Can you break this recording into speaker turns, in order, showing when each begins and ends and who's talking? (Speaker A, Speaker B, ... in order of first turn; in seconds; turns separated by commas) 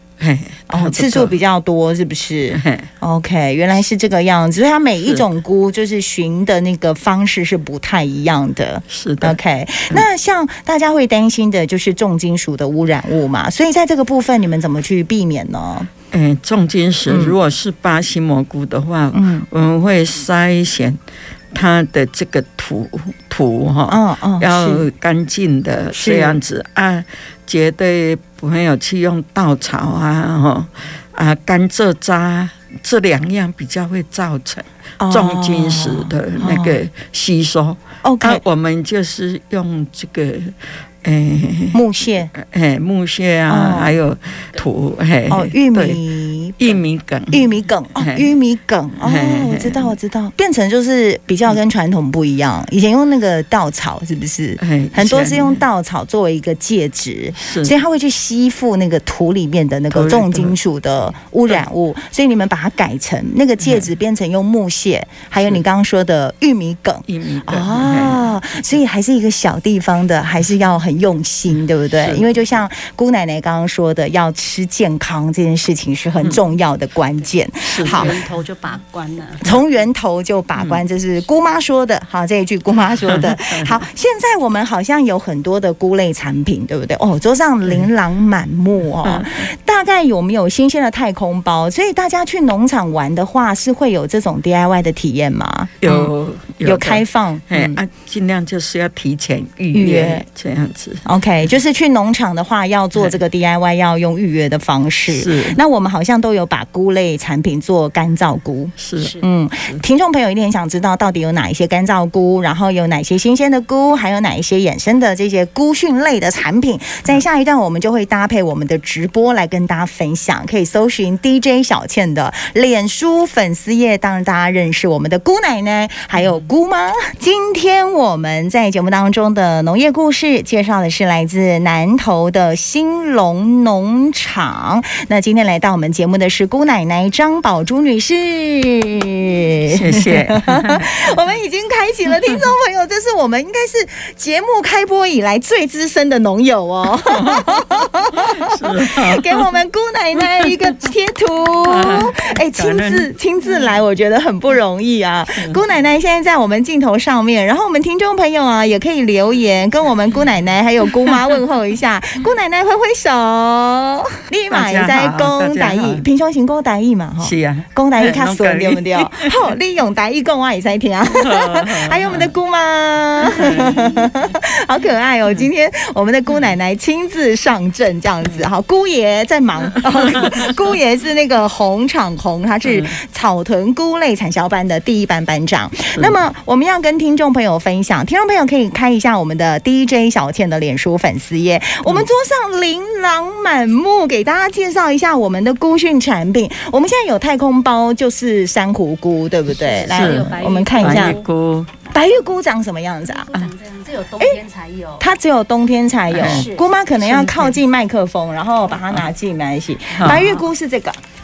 Speaker A: 0.2-1.4, Speaker B: 0.7-15.9, Speaker A: 2.5-2.9, Speaker A: 8.9-9.4, Speaker A: 16.1-21.0, Speaker B: 17.1-17.4, Speaker B: 19.1-19.5, Speaker A: 21.5-41.8, Speaker B: 23.9-24.9, Speaker B: 25.9-26.4, Speaker B: 35.0-36.8, Speaker B: 38.0-38.4, Speaker B: 41.7-42.3, Speaker A: 42.3-46.0, Speaker B: 43.5-44.0, Speaker B: 45.3-46.8, Speaker A: 46.6-48.3, Speaker B: 47.3-78.2, Speaker A: 49.0-49.9, Speaker A: 54.6-55.6, Speaker A: 57.4-57.8, Speaker A: 59.9-60.6, Speaker A: 67.1-68.4, Speaker A: 72.0-72.3, Speaker A: 77.7-78.2, Speaker C: 77.8-79.5, Speaker B: 79.4-96.1, Speaker A: 83.0-83.8, Speaker A: 89.0-89.3, Speaker A: 95.8-101.0, Speaker B: 96.6-97.8, Speaker B: 99.7-100.2, Speaker B: 101.0-201.2, Speaker A: 105.1-105.6, Speaker A: 108.8-109.8, Speaker A: 139.7-141.2, Speaker A: 147.0-149.5, Speaker A: 150.4-150.9, Speaker A: 151.7-153.1, Speaker A: 155.3-155.6, Speaker C: 159.4-159.8, Speaker A: 160.8-161.2, Speaker A: 164.5-166.1, Speaker A: 167.2-169.5, Speaker A: 171.1-172.3, Speaker A: 173.2-174.2, Speaker A: 179.8-180.6, Speaker A: 182.7-182.9, Speaker C: 199.6-201.3, Speaker A: 199.8-201.7, Speaker B: 201.9-203.3, Speaker C: 203.0-205.1, Speaker B: 205.0-211.0, Speaker A: 206.1-206.5, Speaker C: 206.2-206.7, Speaker A: 207.0-207.6, Speaker A: 209.9-210.3, Speaker C: 210.1-210.4